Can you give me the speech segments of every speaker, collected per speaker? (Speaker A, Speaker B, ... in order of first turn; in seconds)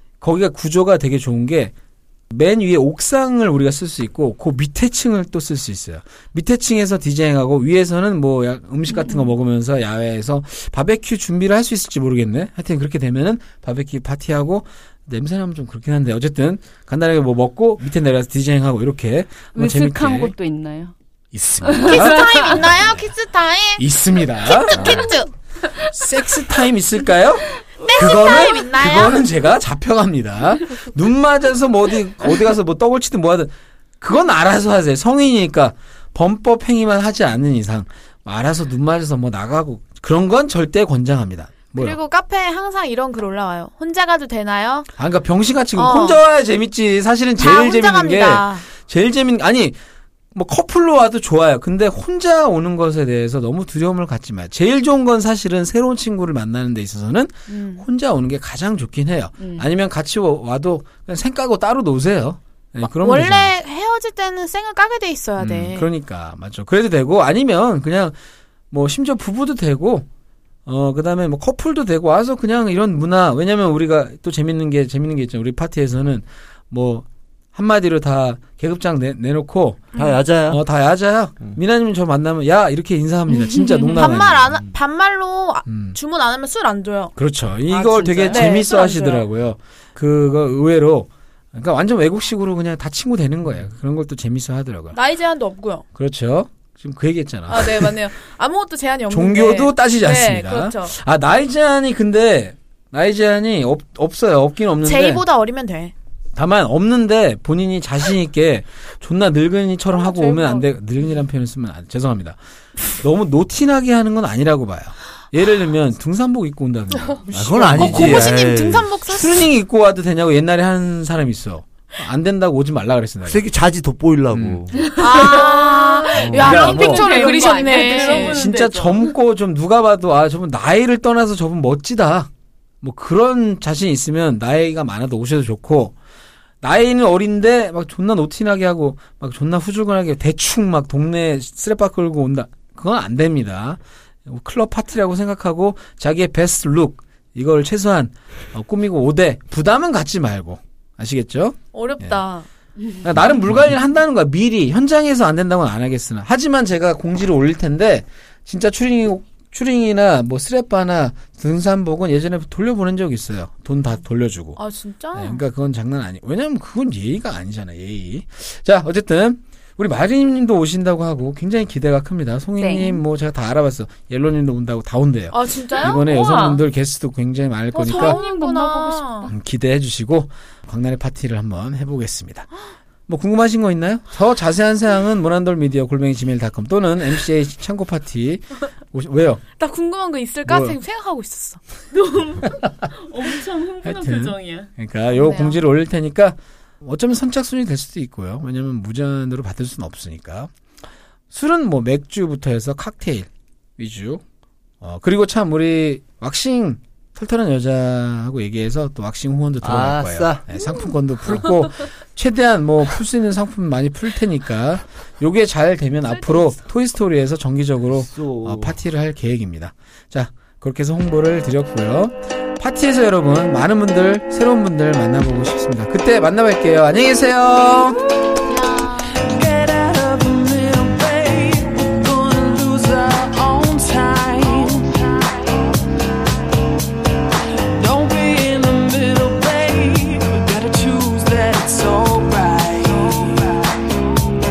Speaker A: 0.2-1.7, 2.3-20.4, 21.3-23.0, 23.8-25.1, 25.7-42.0, 45.0-49.8, 50.3-63.5, 65.4-68.1, 68.7-70.1, 70.6-79.8, 80.5-84.5, 85.7-86.0, 87.2-95.0, 95.9-97.9, 99.1-105.2, 106.3-118.4, 119.1-123.4, 124.3-124.6, 126.1-127.3, 128.0-132.3, 132.8-135.9, 136.6-152.2, 153.0-164.6, 165.1-178.2, 179.2-182.5, 183.1-189.4, 190.5-190.8, 193.8-200.5, 201.3-204.2, 204.8-228.0
Speaker B: 9.0-9.3, 19.5-20.9, 21.6-22.4, 59.4-59.6, 87.7-88.7, 124.8-129.1, 172.6-173.0, 175.8-176.6, 177.7-179.3, 191.9-194.7, 229.1-235.2, 237.6-243.8
Speaker C: 21.7-25.3, 27.8-29.2, 41.7-44.9, 45.7-46.2, 47.4-48.6, 57.5-57.8, 62.8-65.9, 83.9-87.1, 88.3-89.2, 94.9-95.8, 97.5-101.0, 104.8-105.9, 109.9-110.7, 117.3-119.5, 125.0-128.5, 151.7-152.5, 164.6-165.4, 175.3-176.0, 177.8-179.3, 189.6-191.6, 195.1-195.6, 228.4-229.4
Speaker D: 79.9-80.6, 117.3-118.9, 123.2-125.0, 126.2-126.6, 209.6-210.5, 217.9-218.8